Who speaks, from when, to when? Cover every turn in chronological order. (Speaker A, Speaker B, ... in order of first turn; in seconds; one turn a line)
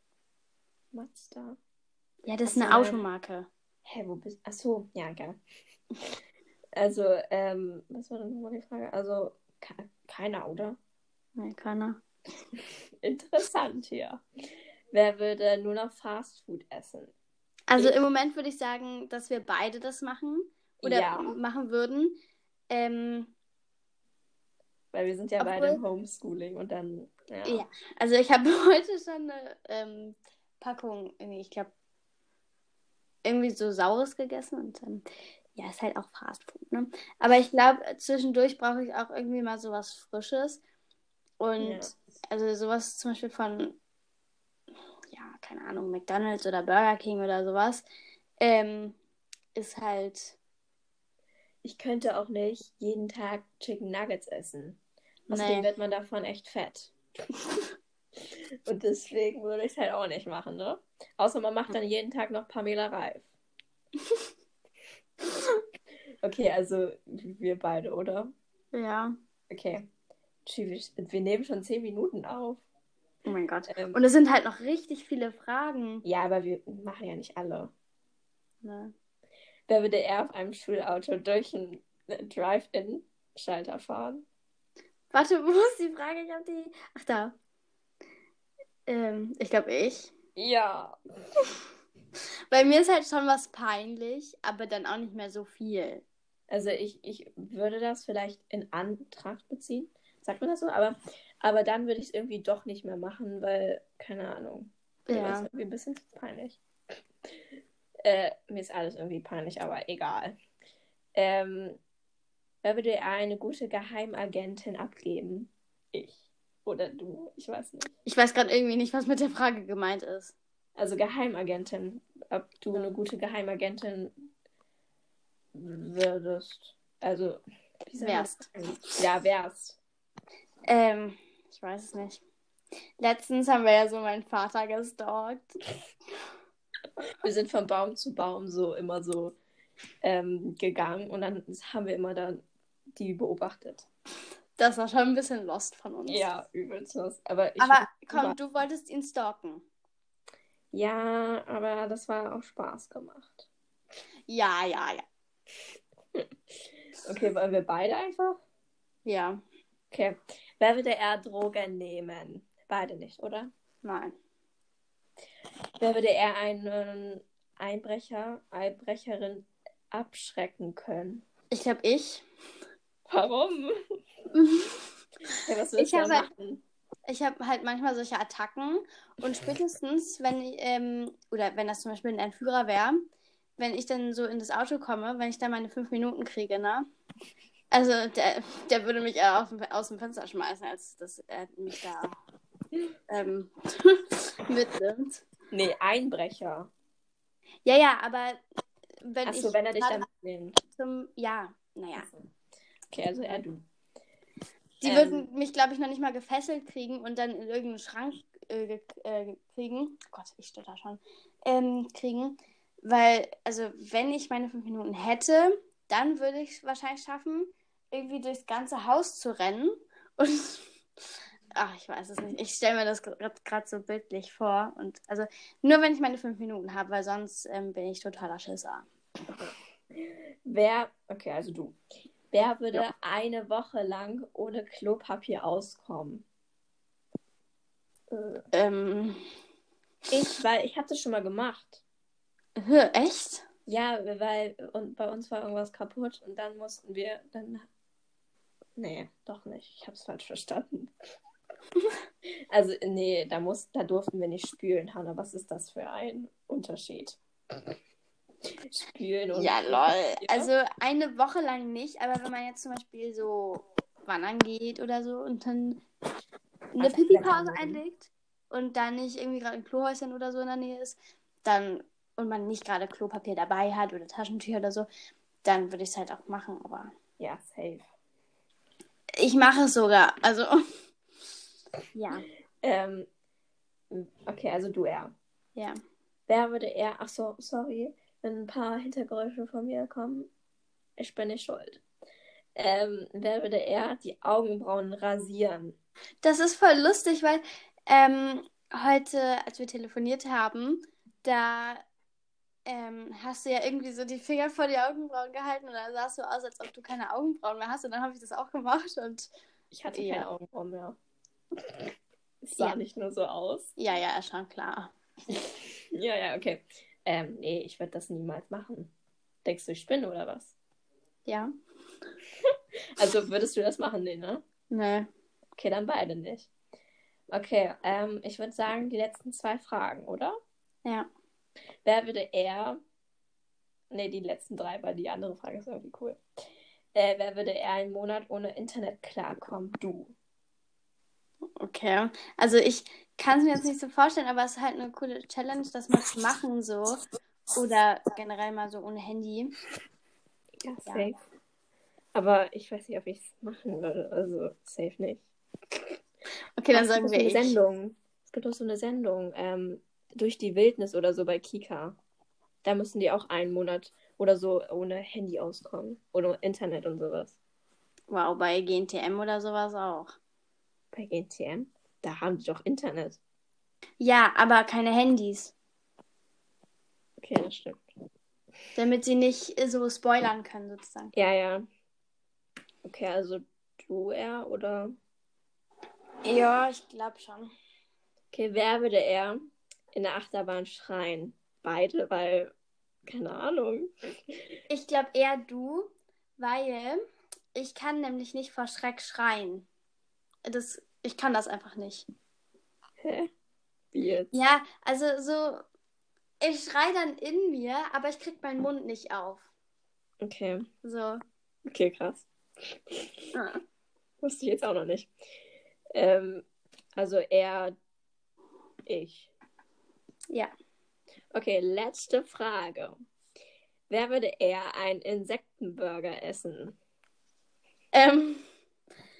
Speaker A: 0.9-1.6
Speaker B: 2.3-3.5
Speaker A: 2.5-3.0
Speaker A: 3.8-5.4
Speaker A: 6.8-10.8
Speaker B: 11.4-12.0
Speaker A: 12.6-14.2
Speaker A: 14.9-17.1
Speaker B: 17.7-22.2
Speaker A: 20.8-21.4
Speaker B: 22.7-23.3
Speaker A: 24.9-27.6
Speaker B: 25.4-25.8
Speaker B: 27.5-31.7
Speaker B: 33.2-35.0
Speaker B: 35.6-40.6
Speaker B: 41.4-43.8
Speaker A: 41.6-41.9
Speaker B: 45.1-47.9
Speaker B: 48.4-49.0
Speaker B: 49.5-50.4
Speaker A: 51.6-57.0
Speaker B: 55.3-55.7
Speaker A: 58.7-63.3
Speaker A: 66.2-68.3
Speaker B: 68.7-69.1
Speaker A: 69.5-69.9
Speaker A: 70.5-72.7
Speaker B: 73.3-76.0
Speaker A: 73.7-74.0
Speaker A: 76.0-77.7
Speaker B: 78.6-78.9
Speaker A: 79.7-84.2
Speaker B: 85.1-87.3
Speaker B: 88.9-90.1
Speaker A: 90.4-91.5
Speaker B: 92.5-96.0
Speaker A: 96.5-106.6
Speaker B: 105.1-105.5
Speaker A: 108.0-110.4
Speaker A: 111.2-111.8
Speaker A: 112.6-117.9
Speaker B: 118.1-120.3
Speaker A: 120.8-124.1
Speaker A: 125.5-129.8
Speaker B: 128.0-128.5
Speaker B: 130.7-132.2
Speaker B: 133.0-135.5
Speaker A: 137.1-139.4
Speaker A: 140.0-143.9
Speaker B: 144.6-146.3
Speaker A: 146.1-148.4
Speaker B: 147.6-149.7
Speaker A: 150.7-153.5
Speaker B: 154.3-155.0
Speaker A: 157.0-158.4
Speaker B: 159.1-159.4
Speaker A: 159.9-163.5
Speaker B: 163.8-164.2
Speaker A: 165.8-171.2
Speaker B: 171.5-172.3
Speaker A: 173.1-173.7
Speaker B: 174.3-174.8
Speaker A: 175.4-176.6
Speaker B: 175.8-176.3
Speaker B: 177.1-186.8
Speaker B: 187.7-192.1
Speaker B: 193.1-195.2
Speaker A: 195.5-196.7
Speaker B: 197.7-198.4
Speaker B: 199.0-200.1
Speaker A: 199.2-200.6
Speaker B: 200.7-202.1
Speaker A: 202.0-202.3
Speaker A: 202.9-203.6
Speaker A: 204.8-205.3
Speaker B: 204.8-220.7
Speaker B: 221.6-228.9
Speaker A: 229.3-231.8
Speaker A: 232.3-236.2
Speaker A: 238.1-238.4
Speaker B: 238.5-239.2
Speaker A: 240.1-241.8
Speaker B: 242.6-243.4
Speaker A: 243.7-247.7
Speaker A: 248.8-250.9
Speaker A: 252.5-257.2
Speaker A: 258.7-260.5
Speaker B: 259.3-265.8
Speaker B: 266.7-274.9
Speaker A: 266.8-267.8
Speaker B: 275.4-276.9
Speaker A: 277.2-277.9
Speaker B: 279.2-280.6
Speaker B: 281.9-282.3
Speaker A: 282.6-283.1
Speaker A: 283.9-285.1
Speaker A: 286.3-290.3
Speaker A: 291.0-291.8
Speaker A: 292.6-295.8
Speaker B: 296.2-301.8
Speaker B: 302.7-309.3
Speaker A: 309.7-311.0
Speaker B: 309.9-310.3
Speaker A: 312.4-313.7
Speaker B: 313.8-314.9
Speaker A: 315.9-318.9
Speaker A: 319.4-320.6
Speaker A: 322.5-324.4
Speaker B: 324.7-325.1
Speaker A: 325.6-326.5
Speaker A: 327.3-330.4
Speaker A: 331.9-332.8
Speaker A: 333.9-336.2
Speaker A: 336.9-340.1
Speaker B: 341.6-347.0
Speaker B: 347.6-349.5
Speaker A: 350.6-351.2
Speaker A: 352.1-355.2
Speaker B: 356.6-357.6
Speaker A: 356.7-362.0
Speaker A: 362.6-367.4
Speaker B: 368.1-370.1
Speaker A: 370.9-373.2
Speaker B: 374.0-375.5
Speaker A: 377.2-377.8
Speaker B: 378.8-381.1
Speaker A: 381.1-381.7
Speaker A: 382.8-385.0
Speaker B: 386.2-387.5
Speaker A: 388.3-389.4
Speaker A: 389.9-392.5
Speaker A: 393.1-394.4
Speaker B: 394.7-397.0
Speaker B: 397.6-399.7
Speaker B: 400.5-402.1
Speaker A: 403.0-403.3
Speaker A: 403.9-404.3
Speaker B: 404.3-405.6
Speaker B: 406.4-409.5
Speaker A: 410.2-410.7
Speaker B: 410.8-411.2
Speaker A: 411.7-413.3
Speaker B: 413.3-413.6
Speaker A: 414.2-415.1
Speaker A: 415.9-416.4
Speaker A: 417.0-417.8
Speaker A: 418.9-419.3
Speaker A: 421.3-423.0
Speaker A: 423.9-426.8
Speaker B: 427.9-428.4